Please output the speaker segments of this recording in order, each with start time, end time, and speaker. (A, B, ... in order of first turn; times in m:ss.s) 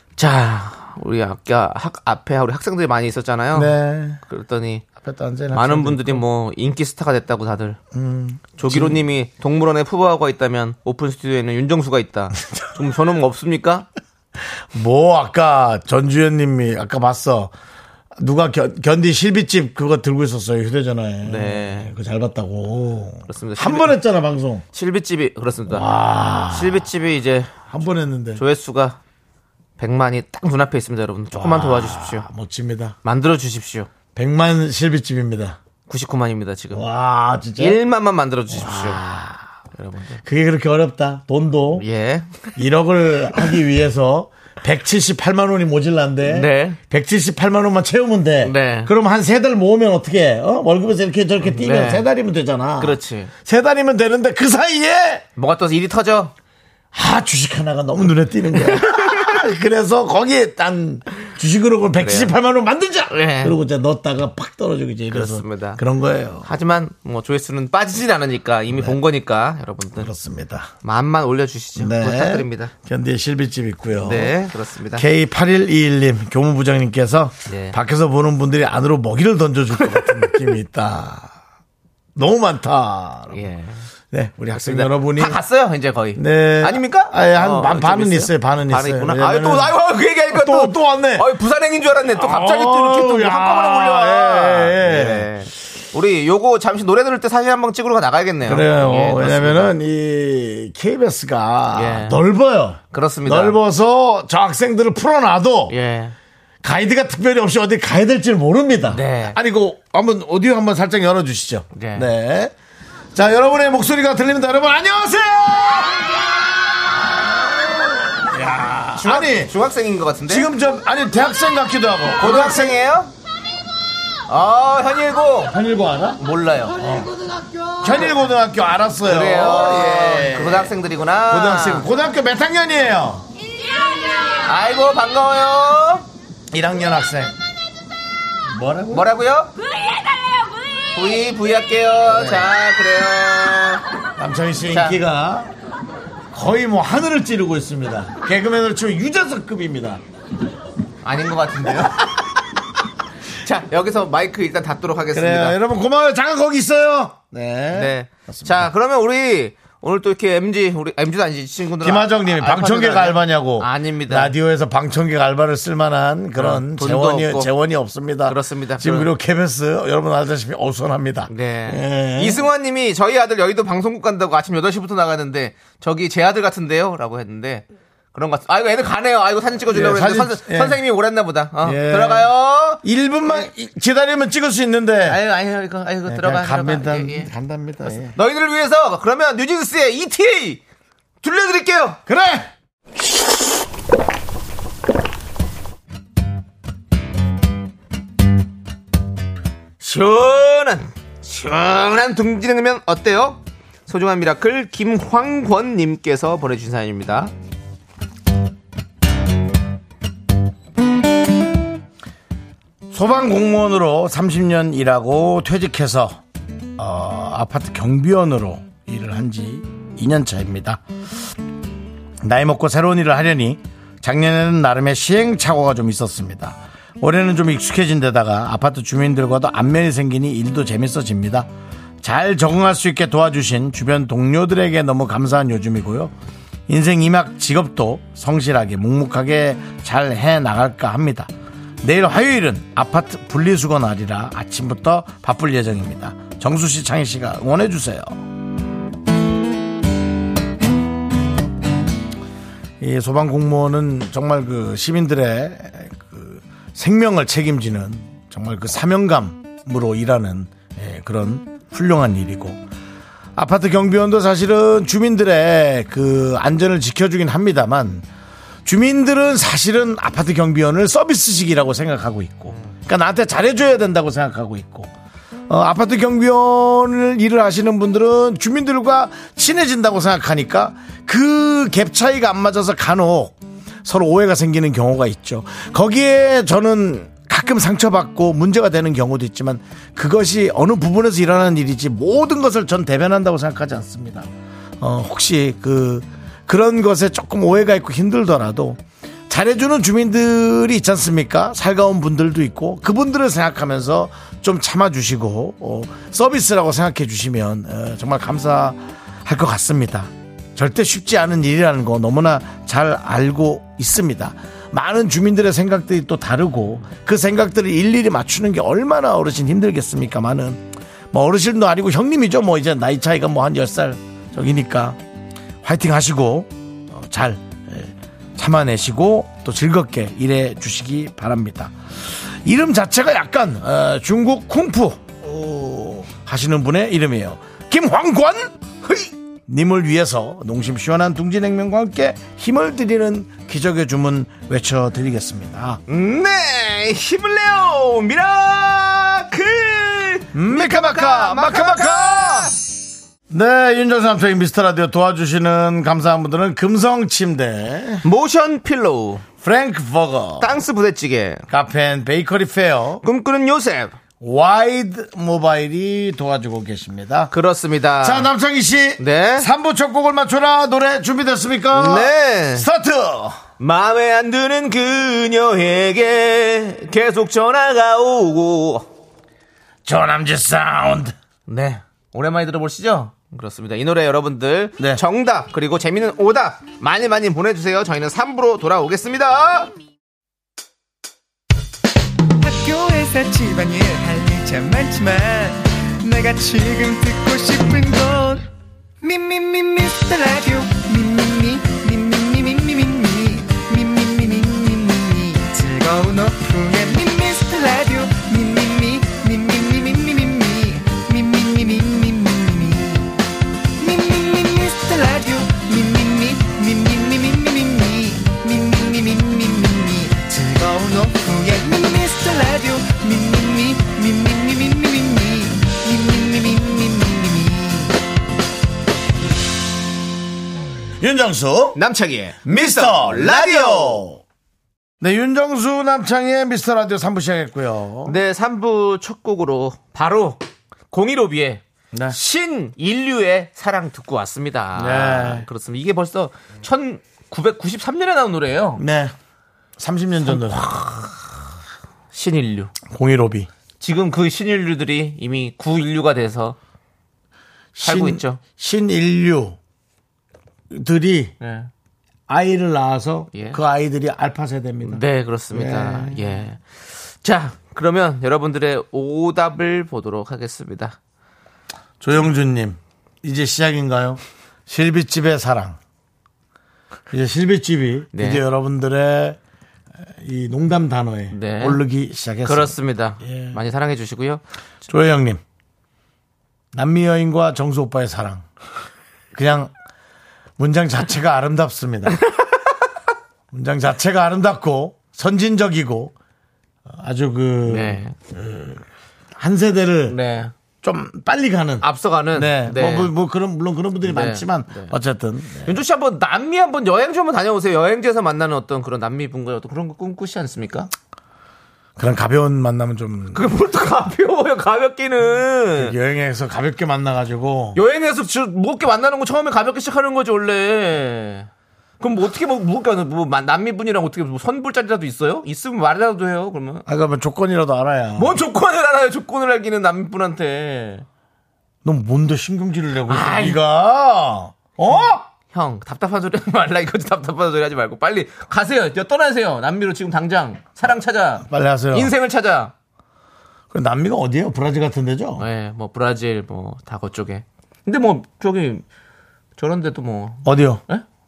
0:00.2-0:03.7 A
0:03.5-0:04.2 B
0:04.2-0:04.9 A
0:05.0-0:06.2 B
0:05.5-0:07.8 A
0:07.9-0:09.0 B
0:08.6-0:13.9 A
0:14.7-0:17.5 B
0:18.2-0:24.6 B
0:21.2-0:21.9 A
0:23.3-0:24.0 A
0:24.7-0:25.9 A
0:25.7-0:26.9 B
0:26.5-0:27.5 A
0:27.7-0:28.4 B
0:28.4-0:29.0 A
0:29.8-0:32.3 A
0:31.3-0:33.0 B
0:33.0-0:33.9 A
0:34.1-0:35.6 B
0:35.9-0:36.9 A
0:36.7-0:37.8 B
0:37.6-0:39.1 A
0:38.5-0:39.4 B
0:39.7-0:40.2 A
0:40.2-0:41.8 B
0:41.8-0:42.5 A
0:42.6-0:55.2 B
0:46.2-0:46.8 A
0:48.4-0:48.9 A
0:51.4-0:52.0 A
0:52.8-0:53.3 A
0:55.4-0:56.3 A
0:56.9-1:06.5 B
0:58.6-0:59.4 A
1:02.0-1:02.3 A
1:03.1-1:03.6 A
1:05.1-1:05.8 A
1:06.4-1:10.1 A
1:08.7-1:09.0 B
1:10.0-1:10.7 B
1:10.8-1:12.7 A
1:11.8-1:14.4 B
1:14.0-1:15.0 A
1:15.0-1:21.3 B
1:17.5-1:17.8 A
1:19.8-1:20.4 A
1:22.1-1:23.4 B
1:23.3-1:23.8 A
1:24.1-1:25.4 B
1:24.5-1:39.7 A
1:26.2-1:29.7 B
1:30.3-1:31.3 B
1:32.1-1:35.3 B
1:38.4-1:45.7 B
1:41.7-1:42.2 A
1:42.9-1:43.6 A
1:45.7-1:46.2 A
1:46.6-1:52.5 B
1:48.9-1:49.4 A
1:51.7-1:52.1 A
1:53.1-1:56.1 B
1:57.0-1:59.5 B
1:59.0-2:00.5 A
2:00.3-2:02.8 B
2:02.2-2:03.1 A
2:04.3-2:05.5 A
2:05.5-2:06.2 B
2:06.2-2:06.8 A
2:06.8-2:07.1 B
2:07.8-2:10.7 B
2:09.0-2:11.9 A
2:11.3-2:13.3 B
2:14.3-2:16.1 A
2:16.5-2:17.4 B
2:18.5-2:19.1 B
2:18.9-2:19.5 A
2:20.9-2:23.8 A
2:22.1-2:22.5 B
2:24.2-2:25.5 B
2:24.7-2:25.0 A
2:26.3-2:30.0 B
2:31.0-2:32.3 A
2:33.4-2:35.6 A
2:35.1-2:38.7 B
2:37.7-2:44.3 A
2:41.8-2:52.4 B
2:46.4-2:47.5 A
2:48.3-2:49.1 A
2:51.3-3:02.8 A
2:59.7-3:00.8 B
3:01.6-3:02.3 B
3:02.8-3:05.2 B
3:05.0-3:07.3 A
3:06.0-3:08.2 B
3:07.8-3:10.6 A
3:11.2-3:12.0 A
3:12.1-3:12.5 B
3:19.8-3:27.3 A
3:32.9-3:36.2 B
3:36.8-3:40.8 B
3:42.2-3:51.5 B
3:52.0-3:56.1 B
3:56.7-4:01.3 B
4:01.8-4:08.2 B
4:12.8-4:22.6 B
4:23.4-4:28.0 B
4:28.6-4:34.9 B
4:35.5-4:54.3 B
4:54.8-5:25.0 B
5:25.6-5:31.7 B
5:32.4-5:38.5 B
5:39.5-5:45.8 B
5:45.9-5:52.6 A
5:50.3-5:52.5 B
5:53.3-5:58.0 B
5:58.0-5:59.2 A
5:59.4-6:00.5 B
6:00.4-6:01.4 A
6:01.5-6:03.0 B
6:03.0-6:03.9 A
6:04.2-6:07.3 B
6:07.3-6:08.3 A
6:08.0-6:13.4 B
6:09.0-6:09.5 A
6:11.7-6:12.7 A
6:13.6-6:18.9 A
6:19.8-6:21.1 B
6:21.5-6:29.7 A
6:32.4-6:38.5 C
6:39.0-6:53.1 C
6:53.8-7:08.0 C
7:11.0-7:11.8 B
7:11.8-7:14.1 A
7:12.5-7:14.2 B
7:15.0-7:18.2 B
7:18.0-7:20.4 A
7:20.9-7:28.8 A
7:24.8-7:25.5 B
7:28.8-7:29.1 B
7:29.8-7:30.7 B
7:30.2-7:31.2 A
7:32.1-7:32.7 A
7:32.9-7:33.5 B
7:33.8-7:36.6 A
7:37.8-7:39.6 B
7:37.8-7:38.4 A
7:40.7-7:41.4 B
7:41.4-7:41.7 A
7:42.3-7:46.4 B
7:43.3-7:43.6 A
7:44.8-7:51.0 A
7:52.0-7:55.8 B
7:57.1-7:59.4 B
7:58.1-7:58.4 A
8:00.2-8:03.6 B
8:01.3-8:01.8 A
8:02.4-8:04.4 A
8:04.9-8:05.4 B
8:06.7-8:08.4 B
8:09.3-8:09.7 B
8:10.6-8:12.2 B
8:13.5-8:16.1 B
8:16.9-8:18.8 B
8:17.6-8:18.1 A
8:19.4-8:20.2 B
8:20.1-8:20.5 A
8:20.8-8:25.8 B
8:21.8-8:23.1 A
8:24.0-8:24.9 A
8:25.6-8:30.9 A
8:32.0-8:33.5 B
8:33.3-8:35.9 A
8:35.8-8:37.8 B
8:37.8-8:41.5 A
8:42.0-8:46.8 A
8:46.8-8:48.4 B
8:48.2-8:51.0 A
8:51.8-8:55.2 B
8:53.1-8:53.6 A
8:54.9-9:02.7 A
9:01.4-9:02.1 B
9:03.7-9:05.4 B
9:05.4-9:08.8 A
9:09.6-9:11.0 A
9:10.4-9:10.8 B